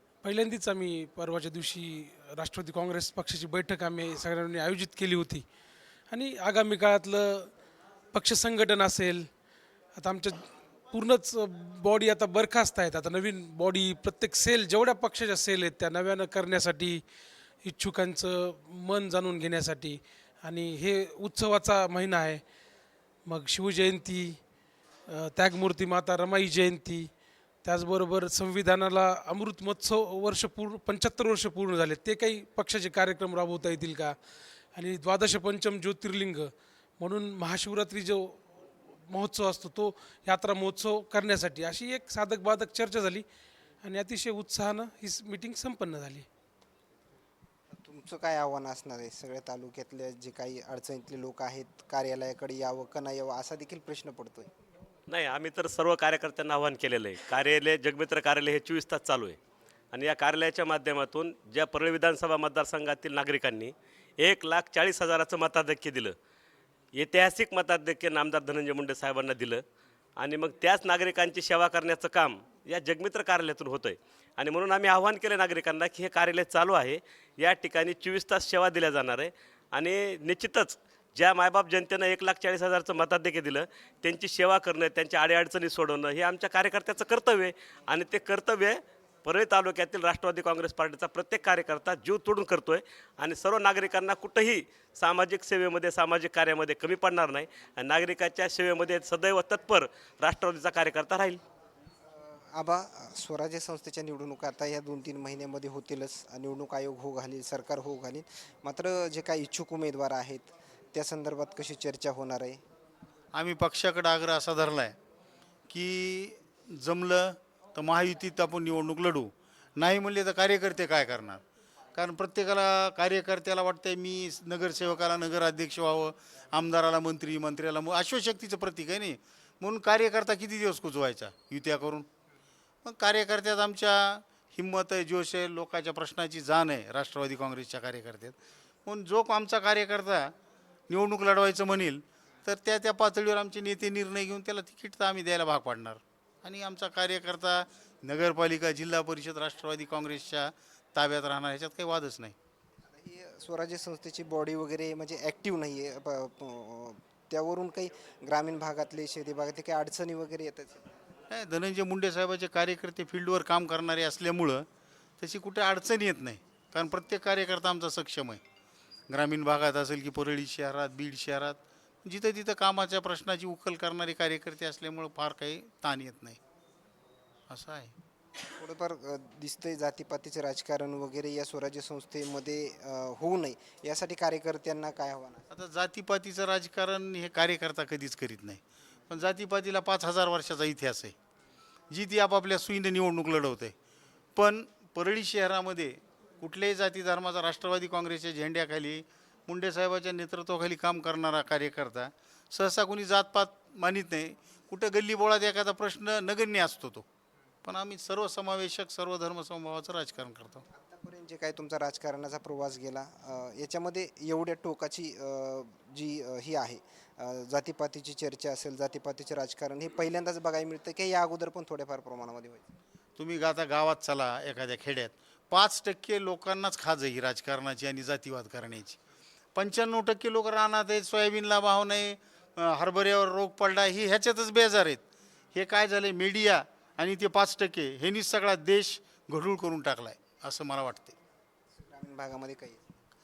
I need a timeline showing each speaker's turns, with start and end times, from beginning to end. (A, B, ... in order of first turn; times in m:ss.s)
0:00.2-0:05.4 A
0:06.1-0:07.5 A
0:08.1-0:09.3 A
0:09.9-0:17.0 A
0:17.6-0:22.4 A
0:23.3-0:24.4 A
0:25.1-0:27.1 A
0:27.6-0:34.2 A
0:34.7-0:38.4 A
0:39.1-0:43.2 A
0:43.8-0:46.2 A
0:47.7-0:54.5 B
0:55.1-0:59.4 C
0:59.9-1:06.1 C
1:07.0-1:09.6 C
1:10.2-1:41.4 C
1:42.1-1:52.6 B
1:53.3-1:55.0 D
1:55.7-2:01.4 D
2:01.9-2:12.1 D
2:12.8-2:20.3 D
2:20.9-2:32.4 D
2:32.9-2:40.9 B
2:41.3-2:44.6 D
2:45.2-2:48.4 D
2:49.1-2:56.4 D
2:57.5-2:57.9 D
2:58.6-3:05.5 B
3:05.5-3:11.1 D
3:11.9-3:13.7 D
3:14.4-3:27.0 D
3:27.6-3:30.6 D
3:30.7-3:42.7 B
3:43.2-3:49.0 D
3:49.5-3:55.0 D
3:55.5-4:01.2 D
4:01.8-4:02.9 B